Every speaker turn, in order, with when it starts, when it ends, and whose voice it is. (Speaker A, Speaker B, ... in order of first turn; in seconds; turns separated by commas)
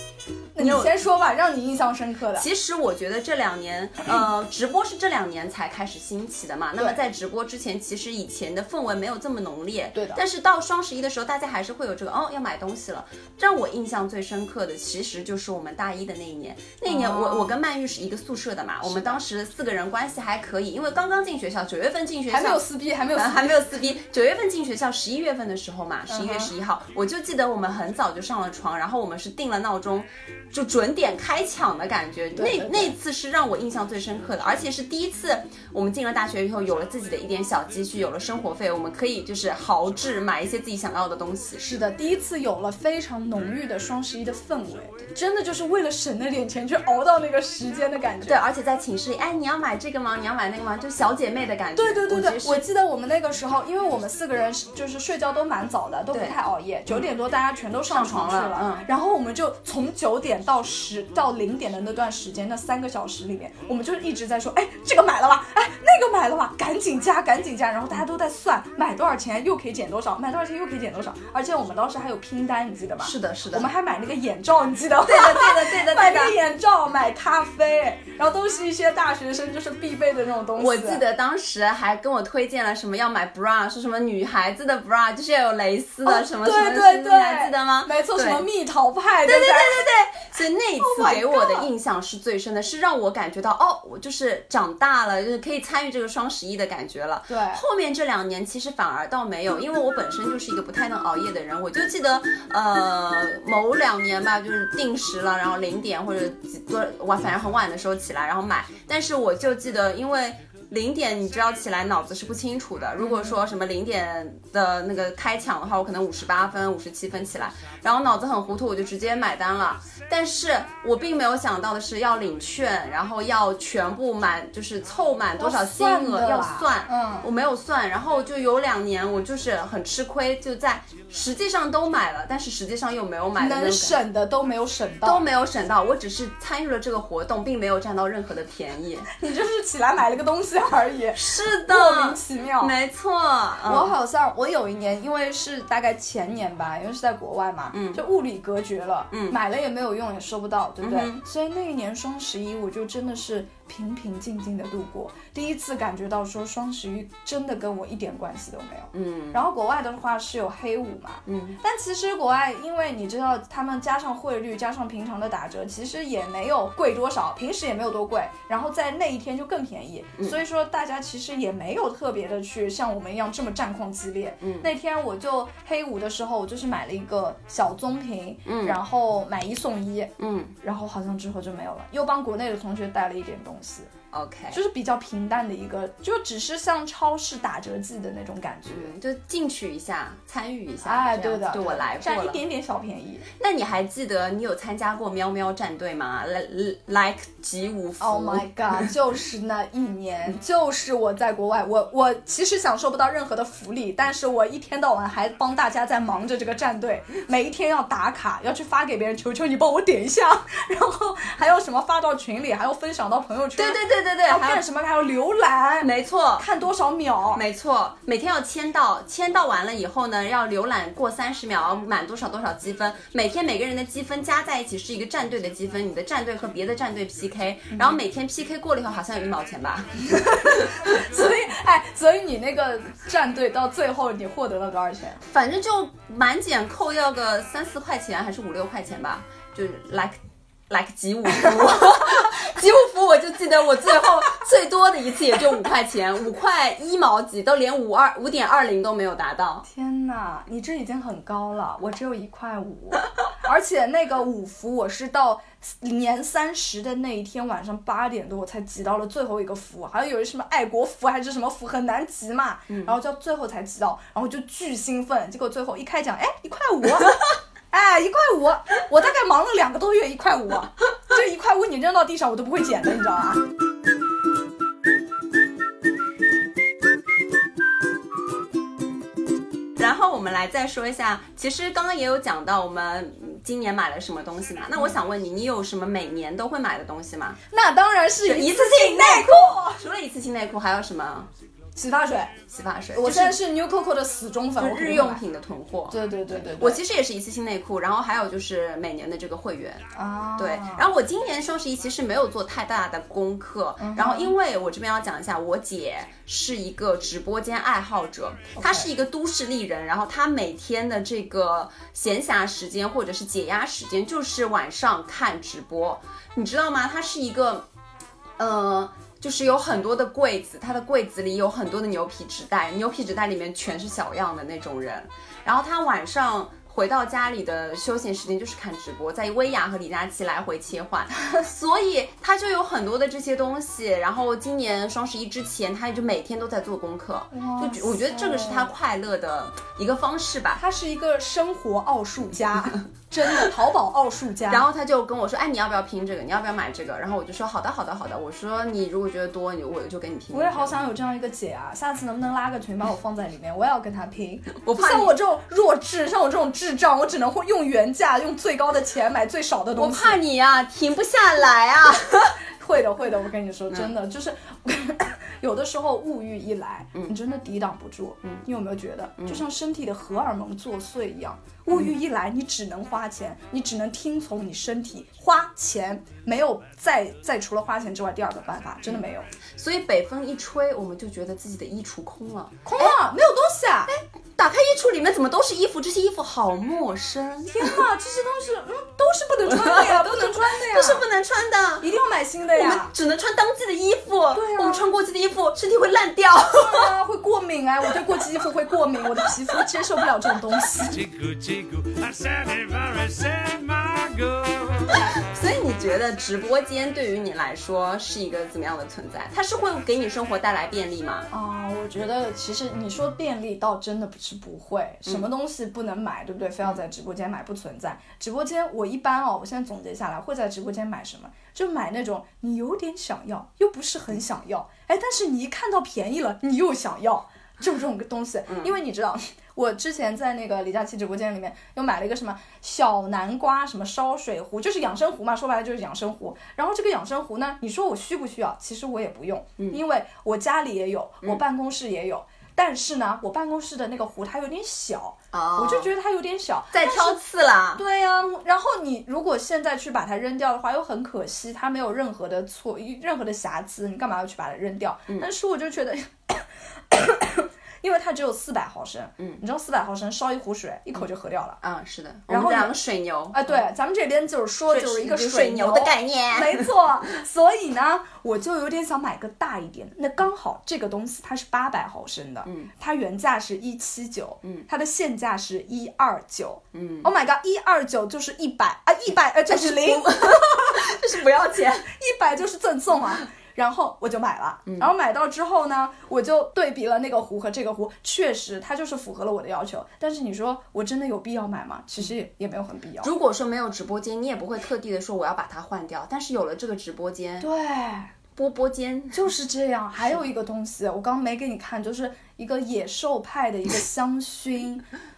Speaker A: 0.6-2.5, Speaker B: 0.6-0.9, Speaker B: 2.4-41.7, Speaker A: 9.9-10.2, Speaker A: 16.9-17.6, Speaker A: 18.9-19.2, Speaker A: 22.3-23.7, Speaker A: 26.1-26.5, Speaker A: 32.4-33.0, Speaker A: 41.6-48.4, Speaker B: 48.2-52.6, Speaker A: 51.8-81.0, Speaker B: 57.9-58.9, Speaker B: 73.0-73.7, Speaker B: 75.0-76.4, Speaker B: 80.6-88.4, Speaker A: 86.0-89.8, Speaker B: 89.2-134.0, Speaker A: 90.8-91.7, Speaker A: 97.3-97.6, Speaker A: 113.0-113.4, Speaker A: 125.4-127.3, Speaker A: 133.4-135.2, Speaker B: 135.0-139.1, Speaker A: 139.1-142.7, Speaker B: 141.2-143.9, Speaker A: 143.7-183.9, Speaker B: 147.7-148.0, Speaker B: 149.1-149.4, Speaker B: 150.8-151.2, Speaker B: 158.9-159.4, Speaker B: 161.3-161.6, Speaker B: 174.4-174.7, Speaker B: 178.4-178.8, Speaker B: 180.2-180.6, Speaker B: 184.1-184.6, Speaker A: 184.5-188.9, Speaker B: 188.7-192.4, Speaker A: 190.8-193.3, Speaker B: 193.4-198.9, Speaker A: 198.0-217.4, Speaker B: 213.6-214.6, Speaker B: 215.8-216.5, Speaker B: 217.3-230.7, Speaker A: 227.7-228.0, Speaker A: 230.1-235.2, Speaker B: 235.2-240.2, Speaker B: 240.7-249.7, Speaker A: 249.7-273.4, Speaker B: 262.7-262.9, Speaker B: 279.8-287.4, Speaker A: 287.5-289.8, Speaker B: 288.2-291.3, Speaker A: 291.8-292.3, Speaker B: 292.5-293.4, Speaker A: 292.9-295.2, Speaker B: 294.6-296.0, Speaker A: 295.9-296.8, Speaker B: 296.5-299.9, Speaker A: 299.9-300.9, Speaker B: 300.4-317.6, Speaker A: 303.8-304.4, Speaker A: 308.6-308.9, Speaker B: 318.4-340.6, Speaker A: 337.3-338.7, Speaker A: 340.6-344.7, Speaker B: 344.5-350.8, Speaker A: 350.3-360.2, Speaker B: 354.6-355.1, Speaker B: 359.8-362.4, Speaker A: 362.5-379.3, Speaker B: 369.2-369.4, Speaker B: 379.6-383.0, Speaker A: 382.6-383.9, Speaker B: 383.9-387.8, Speaker A: 387.5-391.1, Speaker B: 389.5-391.9, Speaker A: 391.8-392.9, Speaker B: 392.5-396.9, Speaker A: 394.3-394.9, Speaker A: 396.6-401.0, Speaker C: 400.9-404.9, Speaker B: 405.2-411.3, Speaker A: 411.3-447.2, Speaker B: 428.5-428.7, Speaker B: 445.3-445.9, Speaker B: 446.7-447.8, Speaker A: 447.8-461.6, Speaker B: 461.6-463.6, Speaker A: 462.3-462.8, Speaker A: 463.3-480.9, Speaker B: 464.7-466.7, Speaker B: 476.7-477.1, Speaker B: 479.5-481.9, Speaker A: 481.8-493.1, Speaker B: 493.0-497.5, Speaker A: 497.4-498.1, Speaker B: 498.4-499.2, Speaker A: 499.1-504.9, Speaker B: 500.0-500.2